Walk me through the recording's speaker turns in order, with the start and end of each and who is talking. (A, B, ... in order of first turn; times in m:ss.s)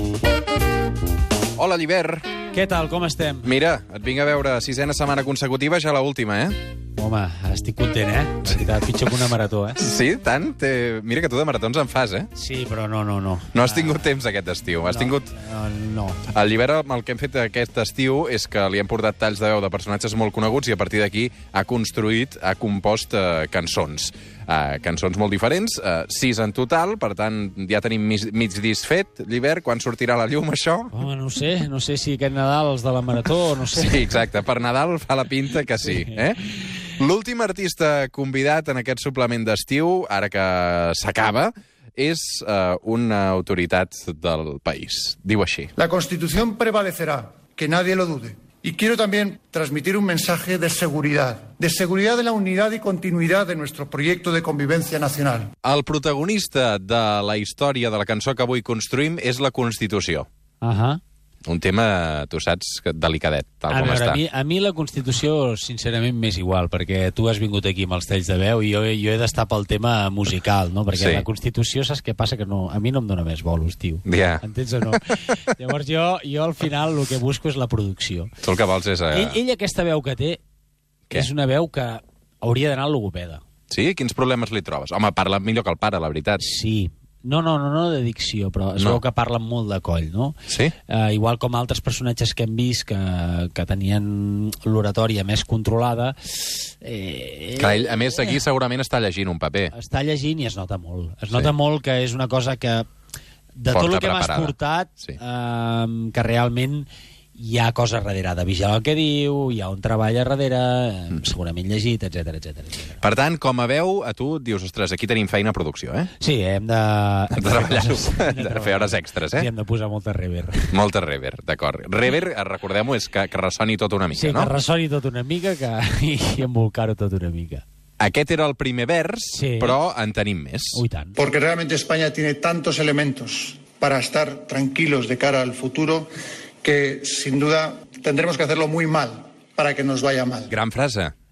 0:01.6-0:02.3 A
0:02.5-0:03.6 B
0:03.4-0:06.6 A
0:07.0-0:09.8 B
0:09.8-0:12.3 A
0:12.3-0:14.2 B
0:13.5-0:15.3 A
0:14.8-0:16.2 B
0:16.3-0:30.9 A
0:30.9-0:34.2 B
0:33.7-0:45.7 A
0:35.9-0:36.2 B
0:45.8-0:55.5 C
0:55.6-1:00.3 A
1:00.6-1:01.0 B
1:01.5-1:04.2 A
1:03.7-1:18.3 B
1:10.9-1:11.3 A
1:14.0-1:15.0 A
1:18.4-1:19.4 A
1:19.1-1:20.4 B
1:21.1-1:23.4 B
1:23.7-1:26.4 A
1:26.4-1:38.4 B
1:28.8-1:29.0 A
1:30.5-1:30.7 A
1:37.6-1:39.7 A
1:39.7-1:42.9 B
1:43.6-1:53.0 B
1:43.7-1:45.2 A
1:53.0-1:56.1 A
1:56.2-2:00.8 B
1:57.3-1:59.5 A
2:00.7-2:04.5 A
2:04.1-2:07.6 B
2:08.0-2:10.8 A
2:09.3-2:09.8 B
2:10.7-2:11.2 B
2:11.2-2:16.1 C
2:16.6-2:20.5 C
2:20.5-2:21.1 A